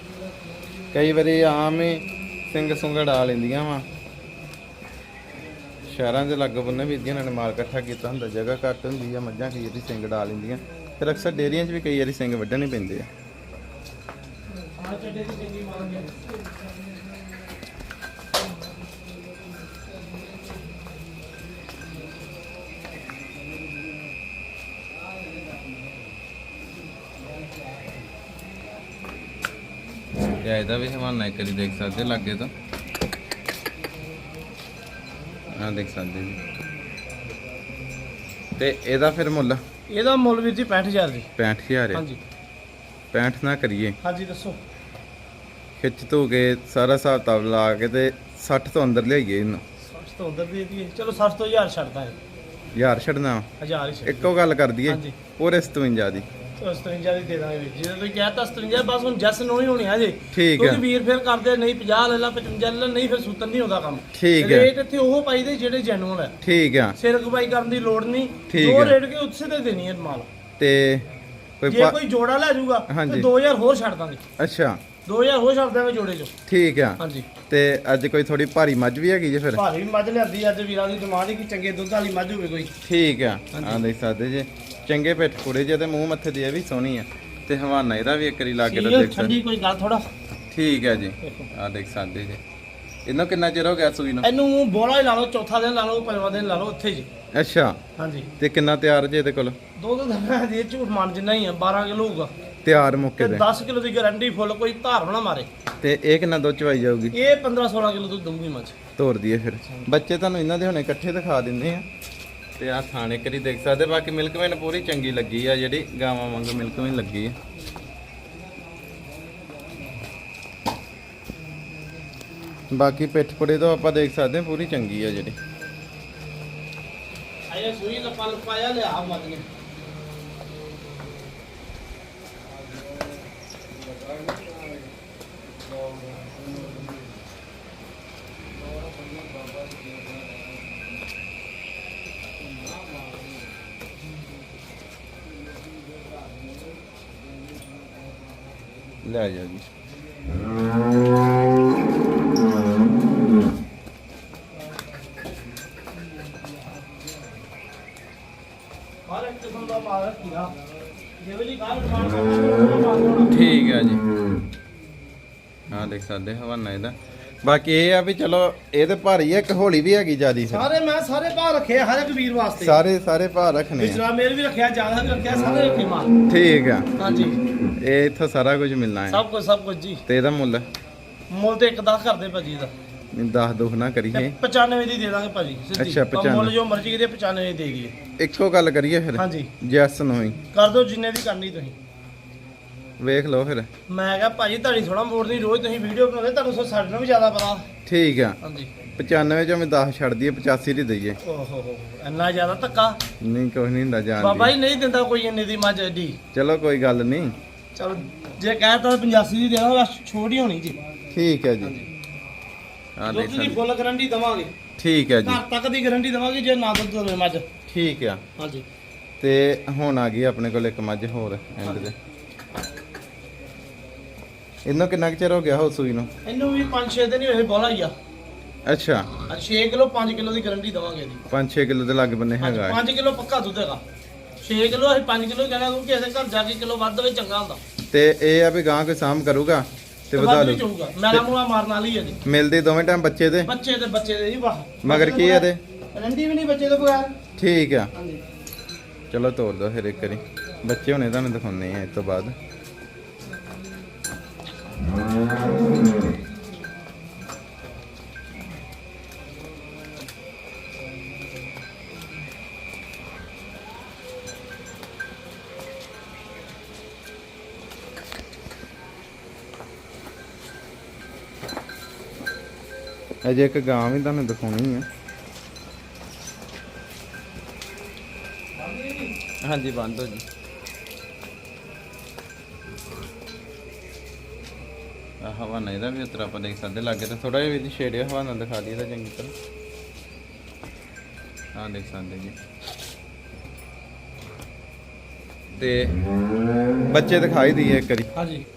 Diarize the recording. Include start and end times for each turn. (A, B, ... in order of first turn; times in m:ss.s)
0:00.9-0:03.9 A
0:05.9-0:13.1 A
0:14.7-0:16.2 B
0:30.4-0:32.5 A
0:35.5-0:36.4 A
0:38.6-0:39.6 A
0:39.9-0:41.3 B
0:41.4-0:42.0 A
0:41.9-0:42.2 B
0:43.1-0:44.0 A
0:44.0-0:44.6 B
0:45.8-0:49.6 A
0:49.8-0:52.1 B
0:52.7-0:53.5 A
0:53.6-0:54.3 B
0:54.0-0:56.3 A
0:54.9-0:55.2 B
0:56.6-1:06.3 B
1:00.3-1:00.8 A
1:04.1-1:04.7 A
1:06.4-1:07.0 A
1:07.0-1:10.3 B
1:08.5-1:09.0 A
1:10.6-1:11.0 A
1:11.6-1:12.0 A
1:11.7-1:14.2 B
1:12.9-1:13.3 A
1:14.4-1:14.8 A
1:15.0-1:16.3 B
1:16.5-1:19.6 A
1:17.0-1:17.3 B
1:19.6-1:22.7 B
1:22.8-1:29.4 A
1:23.5-1:23.8 B
1:28.6-1:30.0 B
1:30.5-1:32.4 A
1:31.2-1:31.5 B
1:33.0-1:34.3 A
1:34.2-1:37.1 B
1:37.3-1:37.8 A
1:38.0-1:38.3 B
1:38.4-1:39.6 A
1:39.8-1:42.3 B
1:42.6-1:43.4 A
1:43.2-1:45.5 B
1:45.8-1:47.2 A
1:47.1-1:48.8 B
1:49.0-1:51.8 A
1:52.6-1:57.4 A
2:02.7-2:05.4 A
2:07.5-2:09.4 B
2:29.0-2:29.7 A
2:39.1-2:40.5 B
2:41.2-2:43.3 B
2:43.3-2:44.0 A
2:45.7-2:50.7 A
2:50.5-2:52.8 B
2:52.6-2:54.0 A
2:53.8-2:56.1 B
2:56.3-2:59.2 A
2:57.0-2:57.4 B
2:59.1-3:00.0 B
3:00.1-3:00.7 A
3:01.3-3:02.7 B
3:03.1-3:04.3 A
3:04.1-3:08.0 B
3:05.7-3:06.5 A
3:08.2-3:10.4 A
3:09.2-3:09.5 B
3:10.5-3:11.8 B
3:13.0-3:13.7 A
3:13.9-3:17.7 B
3:17.8-3:18.4 A
3:18.4-3:18.7 B
3:18.9-3:21.2 A
3:21.2-3:23.0 B
3:23.2-3:24.5 A
3:24.2-3:26.2 B
3:26.3-3:27.4 A
3:27.7-3:30.8 B
3:31.1-3:31.8 A
3:31.6-3:31.9 B
3:33.0-3:33.6 A
3:33.1-3:34.5 B
3:34.8-3:35.4 A
3:35.2-3:37.4 B
3:37.7-3:38.2 A
3:38.4-3:38.6 B
3:39.2-3:41.9 A
3:41.6-3:41.9 B
3:44.6-3:46.1 A
3:46.2-3:47.9 B
3:48.6-3:49.1 A
3:49.3-3:51.2 B
3:51.3-3:52.8 A
3:52.4-3:53.8 B
3:54.4-3:57.6 B
3:57.9-4:01.2 A
4:00.1-4:02.2 B
4:02.2-4:03.5 A
4:03.4-4:07.2 B
4:04.8-4:05.6 A
4:07.4-4:07.9 A
4:07.9-4:08.2 B
4:09.1-4:12.4 A
4:33.2-4:34.8 A
4:38.6-4:39.1 B
4:39.4-4:40.2 A
4:45.2-4:49.3 A
4:51.5-4:52.3 A
4:55.5-4:56.0 A
4:56.9-4:58.1 A
4:58.1-4:58.4 B